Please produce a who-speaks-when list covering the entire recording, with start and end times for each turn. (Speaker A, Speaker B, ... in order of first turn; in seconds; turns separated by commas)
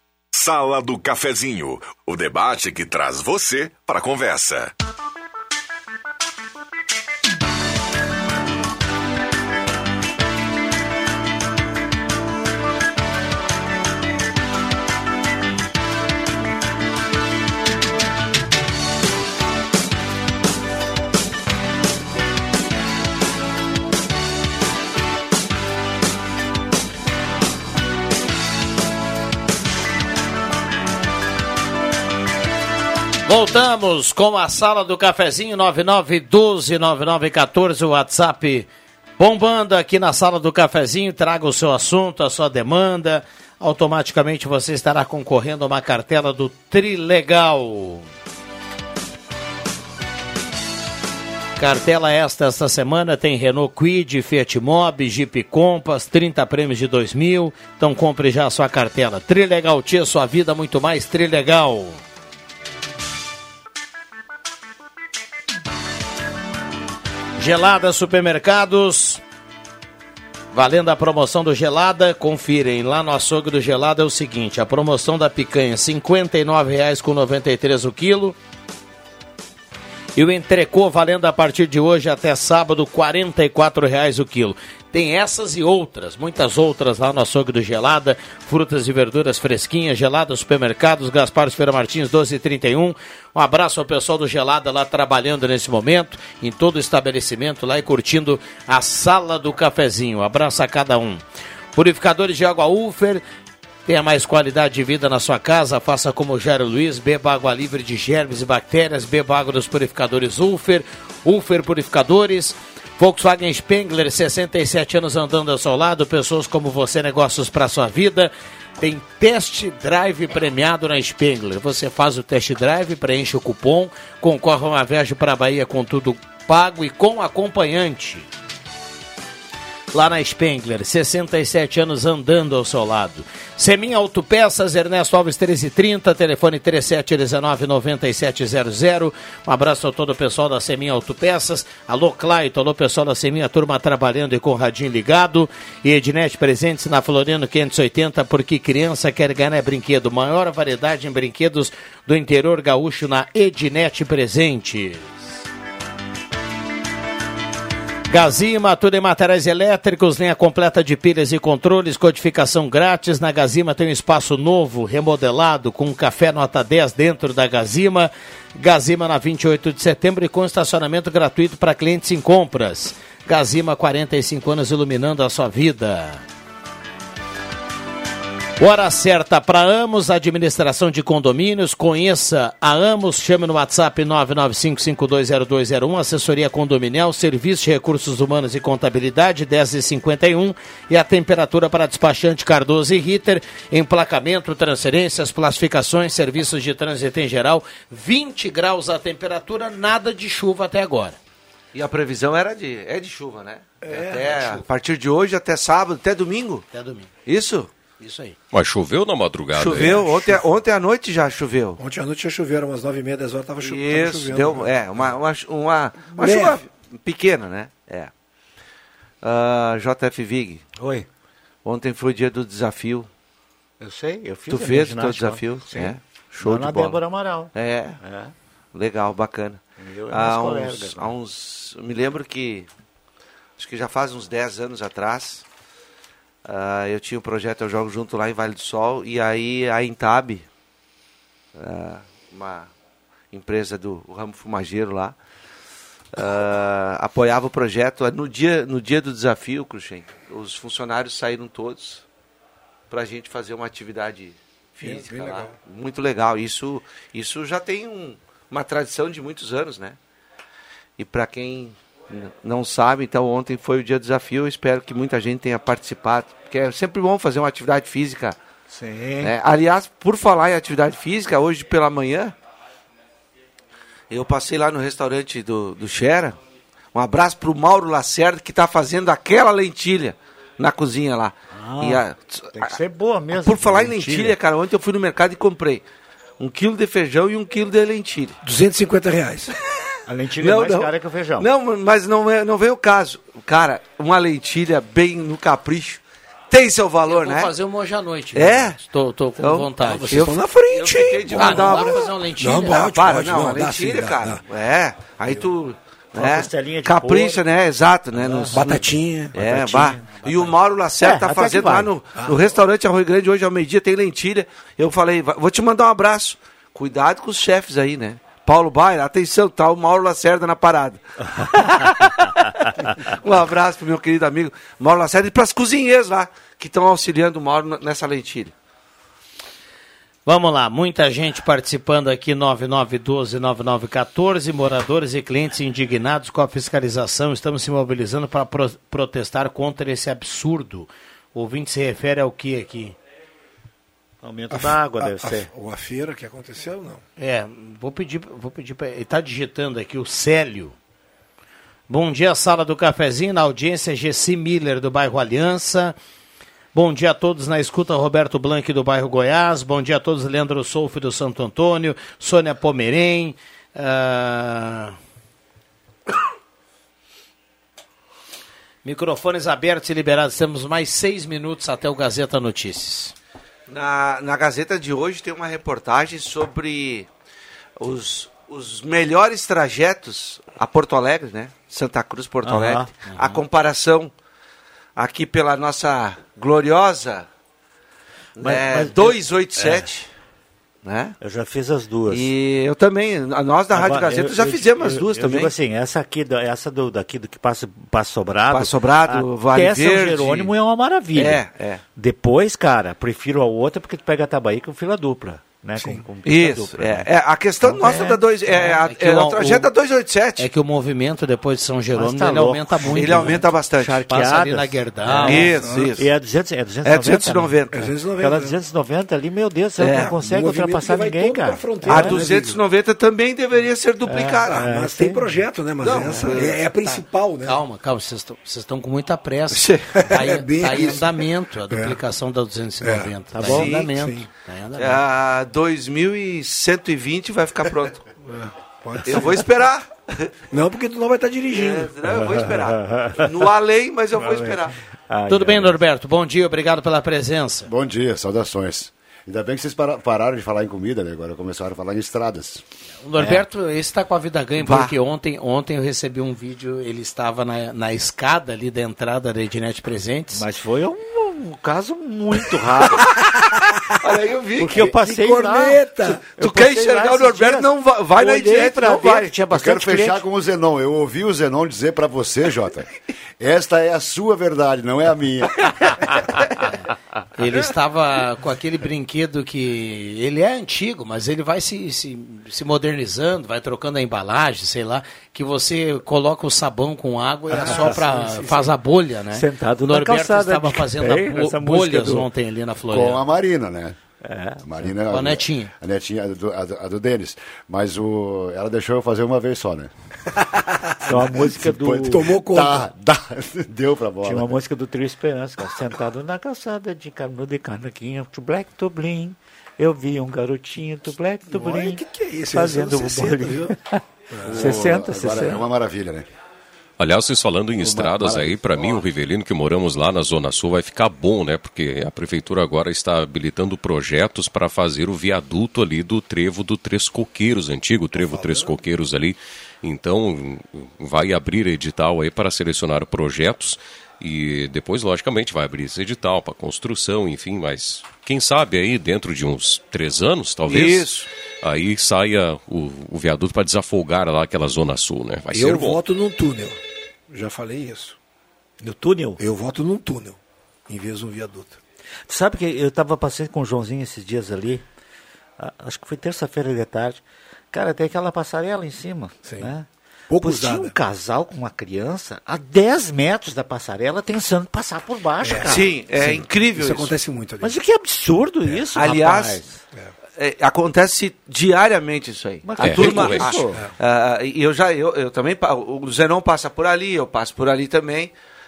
Speaker A: 0.3-4.7, Speaker B: 33.2-38.7, Speaker B: 39.2-48.1, Speaker B: 51.6-62.0, Speaker B: 67.4-69.2, Speaker B: 70.5-78.4, Speaker B: 80.2-101.2, Speaker B: 101.8-103.2, Speaker B: 103.9-128.3, Speaker B: 129.9-155.3, Speaker B: 158.1-176.2, Speaker B: 178.6-201.2, Speaker C: 201.7-206.7, Speaker D: 203.8-204.6, Speaker B: 206.7-207.1, Speaker C: 207.3-207.7, Speaker B: 208.0-208.4, Speaker E: 208.5-210.2, Speaker C: 209.5-211.8, Speaker D: 211.8-214.7, Speaker C: 213.6-218.1, Speaker D: 216.2-216.6, Speaker C: 219.2-220.6, Speaker F: 220.8-221.1, Speaker C: 221.7-223.1, Speaker F: 223.8-227.5, Speaker C: 224.5-227.0, Speaker C: 227.6-228.0, Speaker F: 228.0-228.3, Speaker C: 228.7-232.7, Speaker F: 229.8-231.1, Speaker C: 233.6-235.4, Speaker C: 236.4-240.5, Speaker C: 241.6-242.7, Speaker C: 243.3-245.2, Speaker C: 246.2-252.0, Speaker C: 252.9-260.0, Speaker D: 254.8-255.5, Speaker C: 261.0-268.4, Speaker F: 268.7-269.3, Speaker C: 269.2-272.3, Speaker C: 274.1-276.4, Speaker C: 276.9-282.8, Speaker F: 281.5-282.0, Speaker F: 282.6-284.4, Speaker C: 283.4-285.8, Speaker C: 286.4-288.4, Speaker D: 288.4-289.5, Speaker F: 290.1-291.5, Speaker C: 290.4-297.5, Speaker B: 297.1-300.3, Speaker C: 298.4-298.8, Speaker C: 299.4-302.1, Speaker D: 300.0-304.4, Speaker B: 301.4-302.9, Speaker C: 302.7-328.5, Speaker F: 306.1-307.4, Speaker F: 308.2-308.9, Speaker D: 308.4-310.0, Speaker F: 309.7-309.9, Speaker F: 311.0-311.9, Speaker B: 330.3-343.0, Speaker F: 344.2-345.5, Speaker D: 344.5-347.0, Speaker B: 347.2-350.8, Speaker B: 351.9-355.9, Speaker B: 356.7-364.9, Speaker B: 368.8-373.1, Speaker C: 373.7-377.1, Speaker C: 377.8-384.1, Speaker F: 382.4-382.9, Speaker B: 383.1-383.4, Speaker C: 385.0-387.3, Speaker C: 388.4-390.1, Speaker F: 388.4-389.9, Speaker C: 390.8-391.2, Speaker F: 391.2-392.3, Speaker C: 392.1-395.5, Speaker F: 393.7-401.4, Speaker C: 398.5-400.5, Speaker C: 401.1-401.8, Speaker F: 402.0-407.1, Speaker C: 406.2-410.5, Speaker F: 407.6-408.2, Speaker B: 408.6-409.7, Speaker B: 410.4-413.4, Speaker F: 411.9-417.6, Speaker C: 412.9-414.0, Speaker B: 414.1-415.5, Speaker D: 415.2-415.9, Speaker C: 415.2-416.1, Speaker C: 416.8-417.9, Speaker D: 417.7-418.5, Speaker F: 418.2-422.3, Speaker C: 419.8-420.1, Speaker D: 419.9-422.6, Speaker C: 421.9-424.7, Speaker F: 424.1-425.4, Speaker D: 424.4-427.6, Speaker C: 425.8-426.6, Speaker B: 427.4-435.0, Speaker D: 429.9-432.0, Speaker D: 432.8-434.3, Speaker F: 433.4-433.7, Speaker C: 434.8-438.1, Speaker D: 438.3-439.4, Speaker C: 439.1-440.3, Speaker D: 440.5-441.9, Speaker C: 441.5-444.8, Speaker F: 442.4-443.3, Speaker F: 444.2-445.8, Speaker B: 445.3-447.7, Speaker G: 447.7-452.6, Speaker B: 453.0-460.5, Speaker C: 454.6-454.9, Speaker F: 460.3-463.1, Speaker C: 464.0-464.9, Speaker F: 464.6-470.2, Speaker D: 464.8-466.2, Speaker C: 466.4-469.3, Speaker G: 469.5-472.9, Speaker G: 473.4-475.7, Speaker B: 477.4-493.2, Speaker F: 487.5-488.6, Speaker F: 489.3-492.3, Speaker G: 492.9-494.0, Speaker F: 494.2-494.8, Speaker G: 494.6-499.9, Speaker B: 495.1-495.7, Speaker D: 500.4-500.9, Speaker F: 501.0-502.4, Speaker G: 501.6-504.5, Speaker D: 502.0-502.9, Speaker F: 504.2-515.6, Speaker D: 511.5-513.7, Speaker D: 514.3-514.7, Speaker G: 514.5-516.3, Speaker E: 517.0-541.1, Speaker G: 517.8-519.0, Speaker D: 528.1-528.8, Speaker C: 540.7-541.3, Speaker E: 541.6-546.0, Speaker D: 545.5-546.8, Speaker D: 547.3-548.2, Speaker F: 548.8-549.4, Speaker D: 549.4-551.8, Speaker F: 552.3-554.8, Speaker F: 555.6-559.9, Speaker D: 559.5-559.7, Speaker D: 560.3-560.9, Speaker F: 560.4-565.9, Speaker D: 565.4-567.7, Speaker C: 565.6-567.1, Speaker F: 567.6-569.8, Speaker C: 569.0-569.6, Speaker C: 570.4-578.3, Speaker F: 572.6-573.8, Speaker E: 572.8-573.6